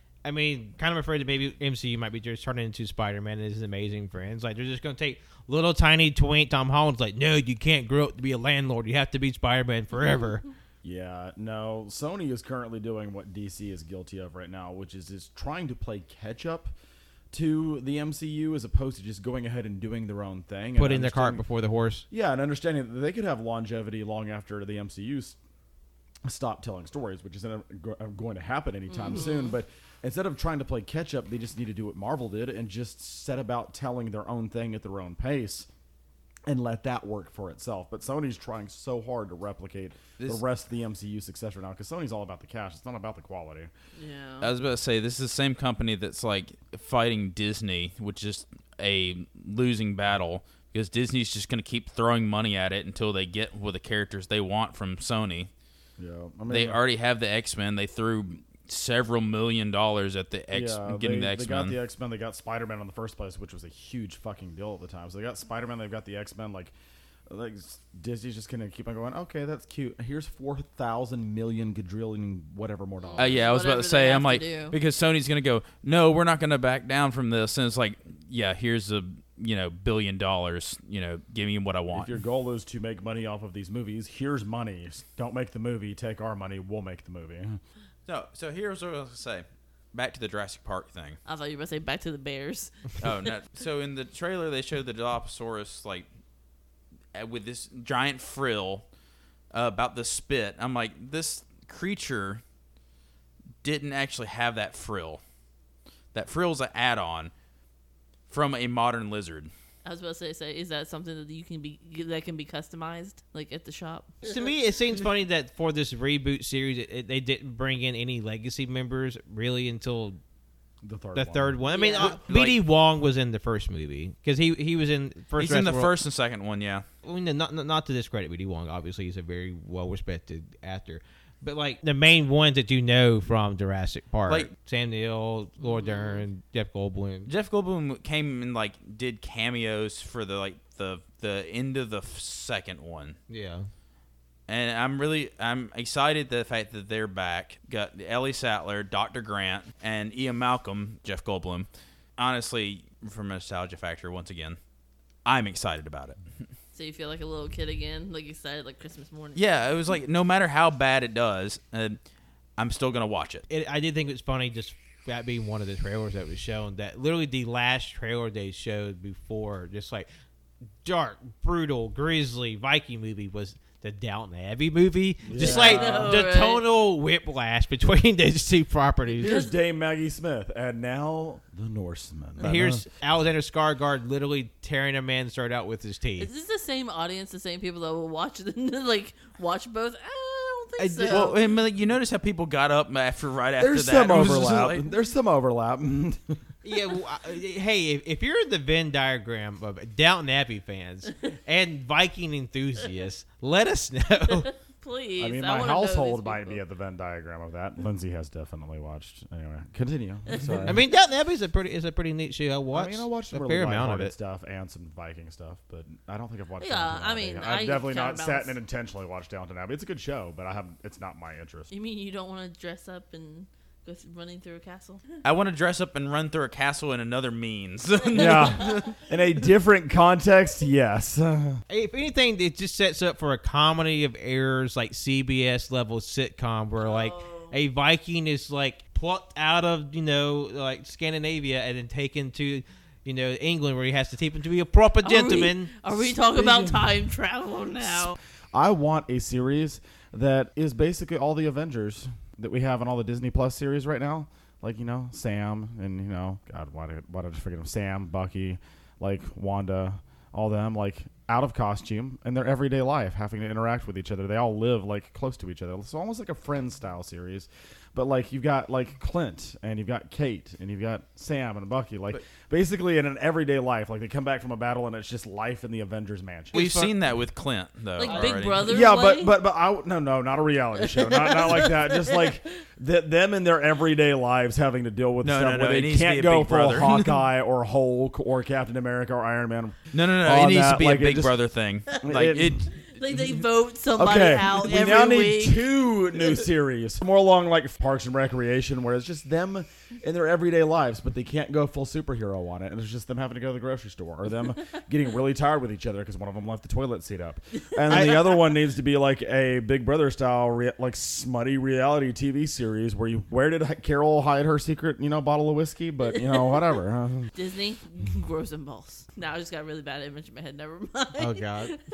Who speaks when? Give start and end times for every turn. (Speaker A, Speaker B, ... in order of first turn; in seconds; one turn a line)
Speaker A: 0.2-10.4
Speaker B: 10.8-16.7
Speaker B: 17.3-21.4
Speaker A: 20.8-22.1
Speaker B: 22.1-25.4
Speaker B: 26.2-35.7
Speaker C: 28.9-29.5
Speaker B: 36.5-43.7
Speaker C: 44.0-44.5
Speaker D: 44.4-55.5
Speaker B: 56.0-56.8
Speaker D: 56.5-61.8
Speaker B: 60.5-66.7
Speaker B: 67.3-73.5
Speaker C: 73.0-74.8
Speaker D: 73.2-82.1
Speaker B: 81.9-87.6
Speaker D: 88.1-91.2
Speaker C: 91.3-93.3
Speaker D: 93.0-96.1
Speaker D: 97.1-98.9
Speaker D: 99.5-102.4
Speaker D: 103.6-105.2
Speaker D: 106.1-107.3
Speaker D: 108.3-109.5
Speaker C: 109.8-114.2
Speaker A: 114.2-120.2
Speaker B: 120.8-121.6
Speaker A: 121.1-125.9
Speaker C: 121.7-122.3
Speaker D: 122.0-122.6
Speaker D: 125.4-126.9
Speaker A: 127.0-137.3
Speaker C: 135.6-136.2
Speaker D: 137.3-143.2
Speaker A: 143.3-143.7
Speaker D: 144.5-154.6
Speaker D: 155.2-156.2
Speaker C: 156.8-159.4
Speaker D: 159.3-162.0
Speaker D: 162.6-163.4
Speaker A: 163.5-170.1
Speaker A: 170.8-179.4
Speaker B: 175.2-176.2
Speaker C: 175.3-176.7
Speaker C: 179.1-179.5
Speaker B: 179.2-182.8
Speaker A: 182.4-186.3
Speaker C: 186.2-191.4
Speaker A: 190.8-191.3
Speaker D: 191.1-194.9
Speaker B: 193.6-196.4
Speaker A: 196.6-204.5
Speaker C: 204.3-206.6
Speaker B: 205.2-210.8
Speaker C: 210.3-210.7
Speaker A: 210.7-214.1
Speaker B: 212.7-221.7
Speaker C: 216.6-218.6
Speaker C: 221.7-225.0
Speaker D: 225.2-228.8
Speaker C: 228.1-228.8
Speaker B: 228.1-231.6
Speaker A: 231.7-245.7
Speaker C: 236.8-237.6
Speaker C: 245.0-248.2
Speaker B: 246.0-246.9
Speaker B: 247.8-276.6
Speaker A: 276.5-277.1
Speaker D: 276.5-278.7
Speaker C: 278.0-279.4
Speaker A: 278.0-278.3
Speaker B: 278.7-291.4
Speaker C: 280.9-282.4
Speaker D: 285.2-287.2
Speaker D: 289.9-293.3
Speaker B: 292.0-292.7
Speaker C: 292.9-295.7
Speaker B: 293.9-317.3
Speaker C: 307.8-308.3
Speaker A: 307.9-308.3
Speaker C: 316.1-316.7
Speaker C: 317.3-321.8
Speaker A: 321.2-321.7